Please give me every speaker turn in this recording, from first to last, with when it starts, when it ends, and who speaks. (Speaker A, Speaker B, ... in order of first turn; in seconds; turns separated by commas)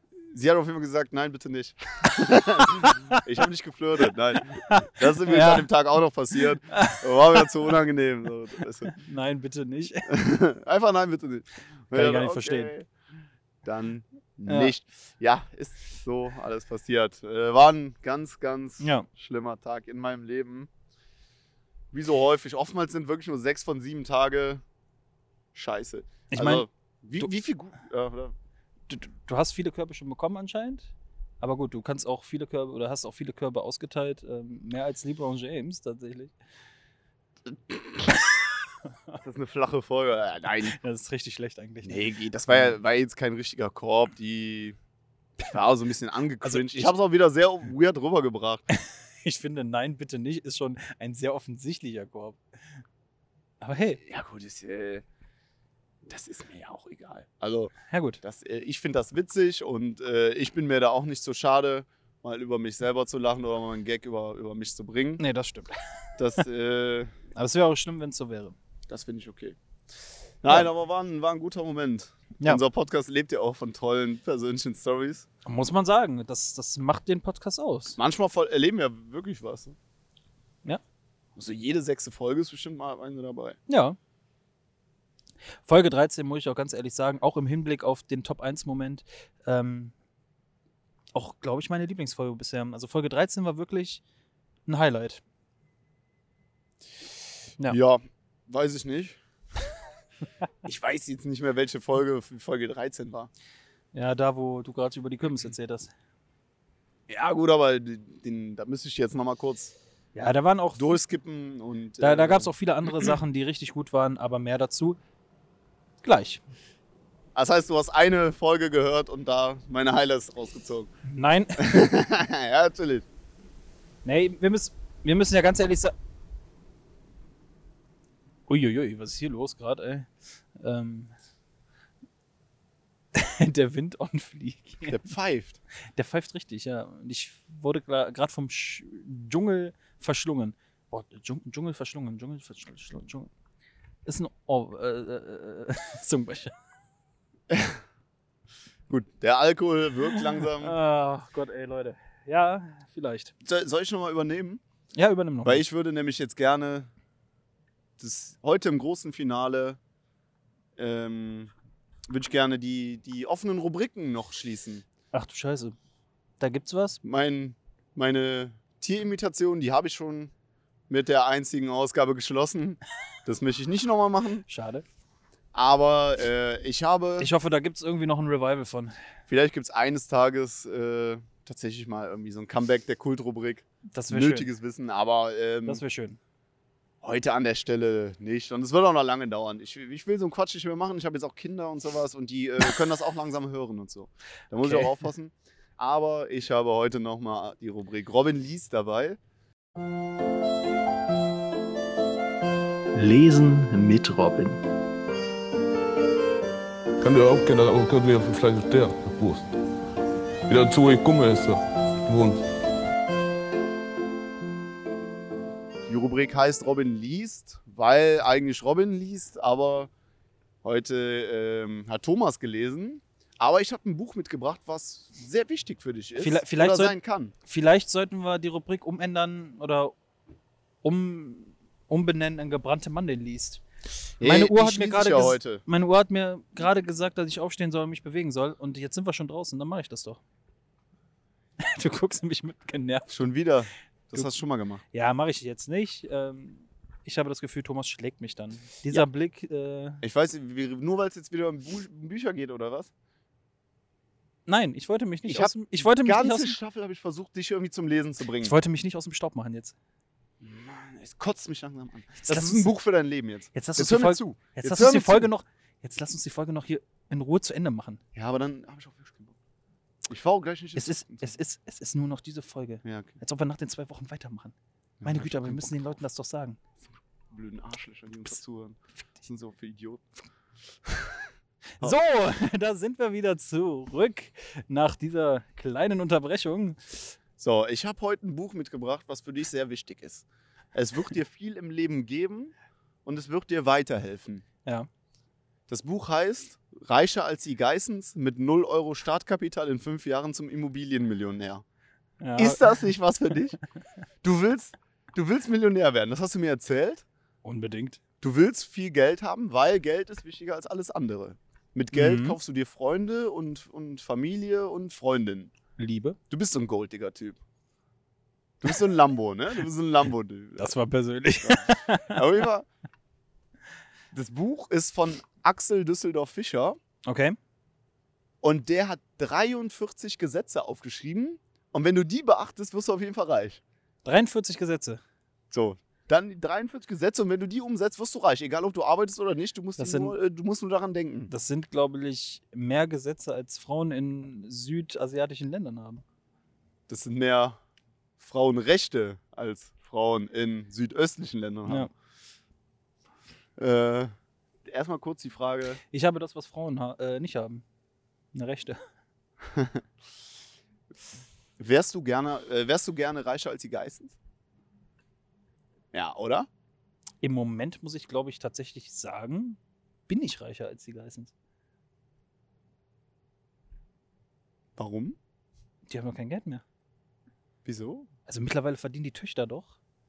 Speaker A: 0.3-8.9, Speaker B: 2.8-3.2, Speaker B: 4.7-5.7, Speaker B: 6.7-7.7, Speaker B: 8.8-10.1, Speaker A: 10.1-12.9, Speaker B: 11.9-12.7, Speaker A: 13.6-20.7, Speaker B: 14.5-14.7, Speaker B: 18.8-19.1, Speaker A: 21.9-24.6, Speaker A: 25.5-28.3, Speaker B: 26.3-26.7, Speaker B: 28.9-36.3, Speaker A: 37.7-38.2, Speaker A: 39.2-40.8, Speaker B: 40.8-42.8, Speaker A: 41.8-44.8, Speaker A: 45.5-48.6, Speaker B: 46.4-46.9, Speaker B: 48.7-52.4, Speaker B: 53.6-54.0, Speaker A: 54.0-55.0, Speaker A: 56.1-65.2, Speaker B: 57.9-58.2, Speaker B: 65.2-65.8, Speaker A: 66.2-67.2, Speaker B: 67.3-68.6, Speaker A: 68.9-69.6, Speaker A: 70.4-75.3, Speaker B: 75.5-78.0, Speaker A: 78.0-79.8, Speaker A: 81.4-83.6, Speaker B: 83.7-84.0, Speaker B: 85.7-89.9, Speaker B: 91.1-94.0, Speaker B: 94.7-95.2, Speaker A: 97.7-99.2, Speaker A: 100.6-103.3, Speaker B: 103.9-105.9, Speaker A: 107.1-109.7, Speaker B: 110.2-111.0, Speaker A: 110.8-112.5, Speaker B: 112.0-115.0, Speaker B: 116.0-116.4, Speaker A: 117.3-120.9, Speaker B: 121.1-121.9, Speaker A: 121.6-123.1, Speaker B: 124.0-126.0, Speaker B: 128.5-131.1, Speaker B: 133.1-135.0, Speaker A: 134.8-135.6, Speaker B: 135.9-143.3, Speaker B: 144.1-146.5, Speaker A: 147.5-147.8, Speaker A: 148.9-150.8, Speaker B: 150.5-153.3, Speaker A: 153.4-154.6, Speaker B: 154.9-155.6, Speaker A: 155.4-156.9, Speaker A: 158.0-159.8, Speaker A: 160.8-161.5, Speaker A: 162.1-164.8, Speaker B: 165.1-165.8, Speaker B: 166.4-167.0, Speaker A: 167.0-170.3, Speaker A: 170.9-174.4, Speaker B: 174.5-174.8, Speaker A: 175.5-177.3, Speaker B: 177.2-179.0, Speaker A: 179.3-185.8, Speaker B: 183.9-184.5, Speaker B: 185.7-186.2, Speaker A: 187.0-199.2, Speaker B: 194.6-195.0, Speaker B: 202.9-204.6, Speaker C: 207.0-209.5, Speaker C: 210.5-212.4, Speaker A: 215.9-219.9, Speaker A: 220.6-227.3, Speaker B: 226.2-229.9, Speaker B: 230.8-233.6, Speaker A: 234.2-235.6, Speaker B: 234.2-240.2, Speaker B: 241.6-243.2, Speaker A: 243.1-244.8, Speaker B: 244.9-250.0, Speaker A: 250.0-252.9, Speaker B: 254.5-256.6, Speaker A: 255.3-258.6, Speaker B: 258.4-259.8, Speaker A: 260.4-265.3, Speaker B: 262.2-262.7, Speaker B: 263.5-268.0, Speaker A: 268.1-269.4, Speaker A: 270.1-271.3, Speaker B: 270.8-276.6, Speaker A: 272.8-273.1, Speaker A: 275.0-276.0, Speaker A: 277.3-280.1, Speaker A: 280.8-281.3, Speaker B: 281.8-287.1, Speaker A: 287.4-292.5, Speaker A: 293.1-294.4, Speaker A: 295.7-301.6, Speaker B: 302.2-302.9, Speaker A: 302.4-303.6, Speaker A: 304.2-307.1, Speaker B: 307.4-308.0, Speaker A: 308.2-315.5, Speaker B: 311.9-312.4, Speaker B: 315.8-316.2, Speaker A: 316.3-317.4, Speaker A: 318.6-320.7, Speaker B: 320.6-322.2, Speaker A: 321.4-322.7, Speaker A: 324.1-326.8, Speaker B: 327.1-327.4, Speaker A: 328.4-333.6, Speaker B: 334.1-335.0, Speaker A: 335.5-341.3, Speaker B: 339.8-340.1, Speaker B: 341.3-346.0, Speaker A: 346.9-347.6, Speaker A: 348.2-351.9, Speaker A: 353.6-354.1, Speaker A: 354.7-355.8, Speaker B: 355.9-357.6, Speaker B: 358.3-358.8, Speaker A: 359.5-359.8, Speaker A: 361.6-364.2, Speaker A: 365.9-366.5, Speaker B: 367.2-371.3, Speaker A: 374.8-375.2, Speaker B: 375.9-376.6, Speaker A: 377.6-378.1, Speaker B: 378.3-379.8